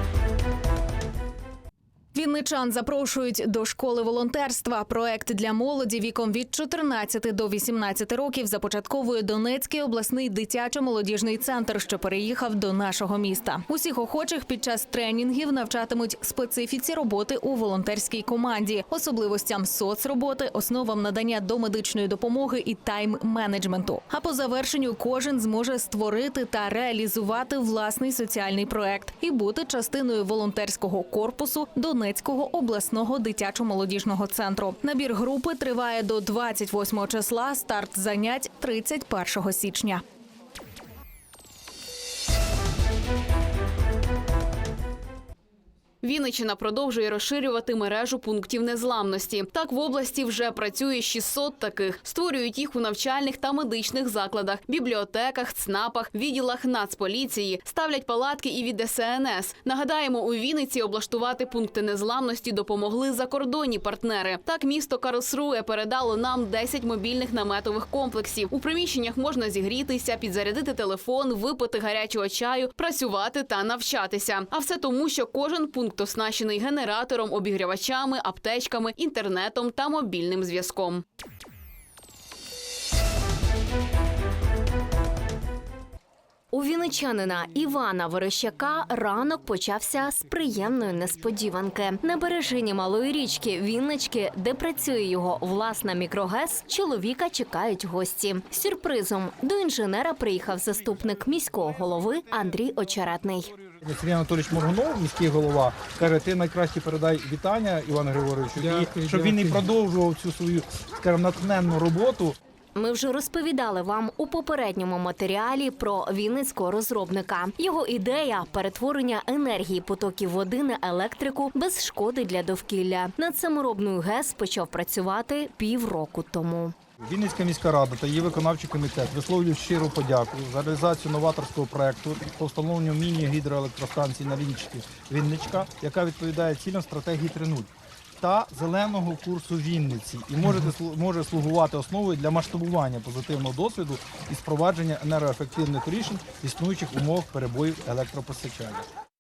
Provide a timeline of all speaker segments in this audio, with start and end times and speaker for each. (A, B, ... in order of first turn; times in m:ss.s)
0:02.1-0:40.0 A
0:46.0-1:21.0 B
1:26.5-1:43.5 C
1:43.8-1:52.4 D
1:52.8-2:06.8 C
2:07.0-2:17.7 D
2:18.2-2:28.9 D